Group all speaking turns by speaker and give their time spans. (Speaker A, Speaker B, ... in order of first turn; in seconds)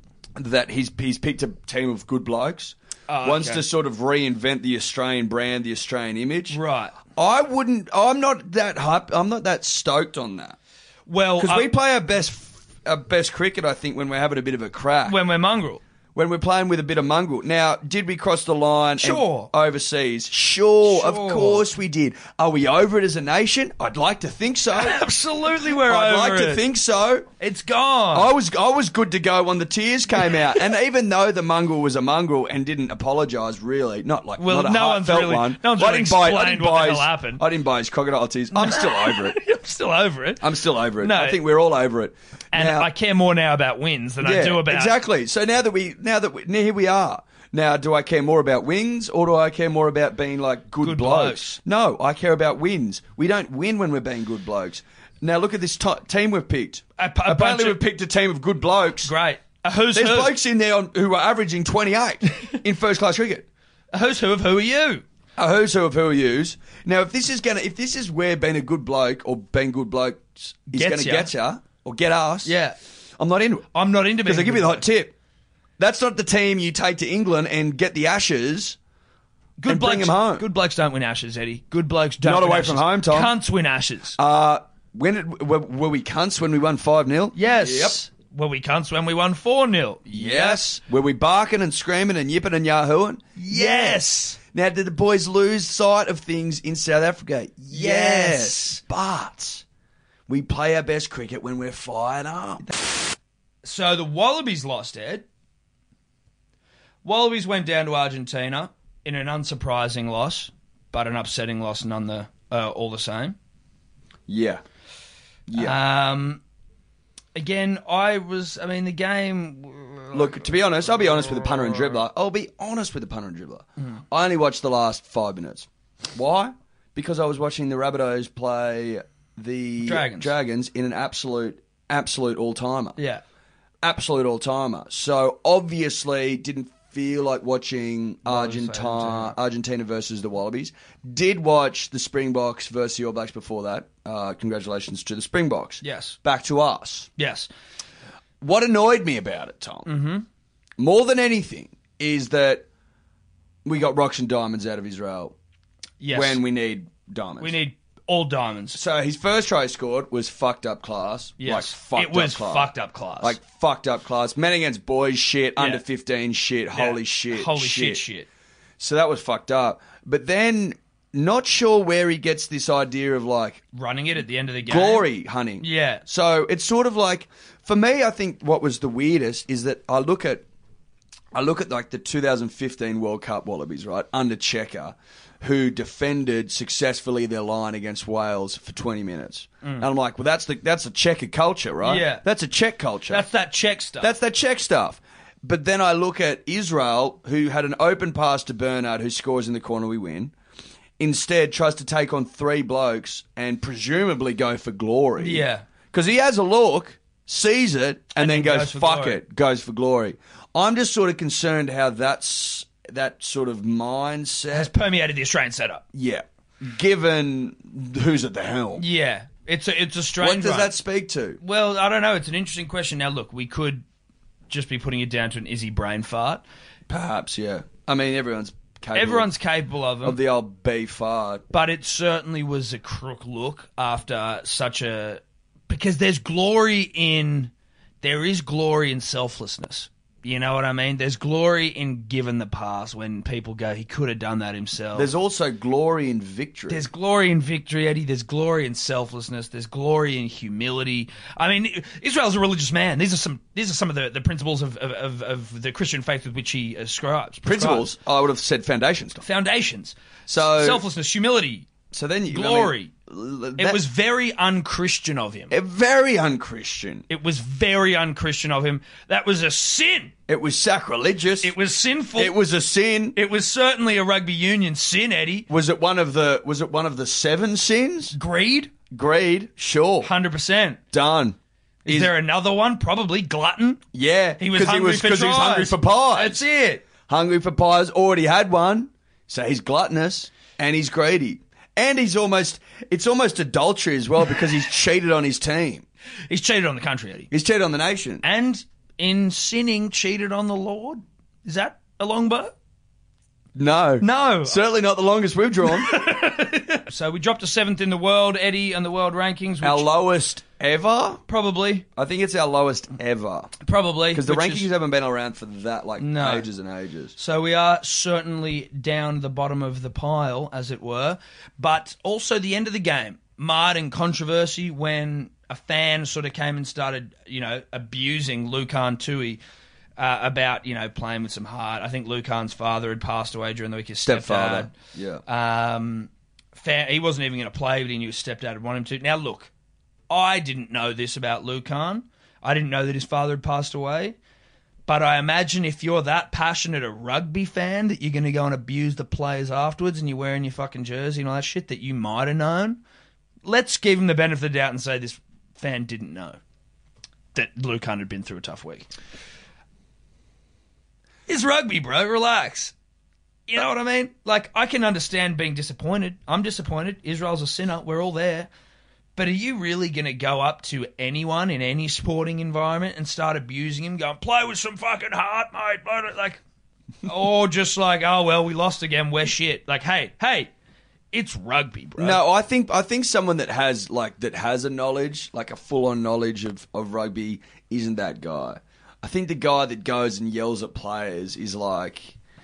Speaker A: 0.4-6.6, 7.2-10.6, 11.4-15.2, 16.1-25.0, 25.6-27.3, 28.1-39.4, 40.4-42.9, 44.2-59.1, 59.9-63.5, 65.4-72.6, 73.2-75.1, 75.8-78.8, 79.7-80.5, 82.2-83.3, 84.2-88.0, 90.1-99.7, 100.3-102.7, 114.3-114.6, 115.5-115.8, 120.1-133.0, 133.8-147.1, 148.4-149.9, 150.8-152.7, 153.7-155.3, 156.1-157.6, 158.7-168.0, 168.8-173.6, 174.6-180.5, 181.3-193.3, 194.0-200.3, 201.0-214.7, 215.9-218.9, 220.2-221.4, 226.9-229.3, 230.0-231.4, 244.9-246.9, 257.4-259.3, 260.3-260.8, 261.9-263.8, 265.5-267.1, 270.3-271.6, 272.2-273.2, 275.5-278.2, 278.9-280.1, 280.9-282.1, 283.9-286.4, 287.1-295.9, 297.3-298.2, 303.6-306.0, 309.6-311.2, 311.9-313.5, 314.1-317.1, 334.0-335.2, 382.0-392.2
Speaker B: 3.1-3.6, 6.5-7.0, 11.1-11.7, 15.1-15.8, 19.0-19.5, 20.8-21.7, 24.7-26.6, 27.4-28.3, 34.4-37.4, 38.5-41.4, 42.5-45.0, 50.8-51.6, 57.0-57.8, 59.0-60.4, 63.9-65.0, 70.7-71.3, 72.5-72.8, 73.7-74.8, 79.6-84.2, 87.3-90.6, 93.4-94.4, 97.7-98.8, 103.6-105.2, 107.0-113.4, 115.5-116.4, 117.3-122.0, 129.8-130.3, 133.0-133.2, 138.2-139.3, 145.8-146.2, 147.2-147.5, 149.9-150.2, 156.0-156.4, 157.4-158.8, 161.4-163.4, 165.6-165.8, 166.7-168.3, 173.7-175.1, 175.6-176.0, 191.8-192.2, 193.1-194.1, 205.2-205.7, 208.2-209.2, 214.5-215.8, 218.8-220.7, 221.4-223.8, 224.5-226.4, 228.9-230.2, 231.5-245.1, 246.7-257.9, 259.2-261.7, 262.3-262.9, 263.6-265.5, 267.1-270.1, 271.4-272.4, 273.1-275.5, 278.1-278.7, 280.0-280.8, 281.9-283.8, 284.4-286.8, 296.3-297.3, 298.2-302.5, 304.0-304.6, 305.8-309.9, 311.3-311.9, 313.6-314.7, 316.0-316.5, 317.2-329.4, 330.0-334.7, 335.3-339.5, 340.1-344.2, 344.9-352.8, 353.4-356.4, 357.3-358.9, 361.3-362.7, 363.5-368.5, 369.2-376.4, 377.0-380.5, 381.1-382.2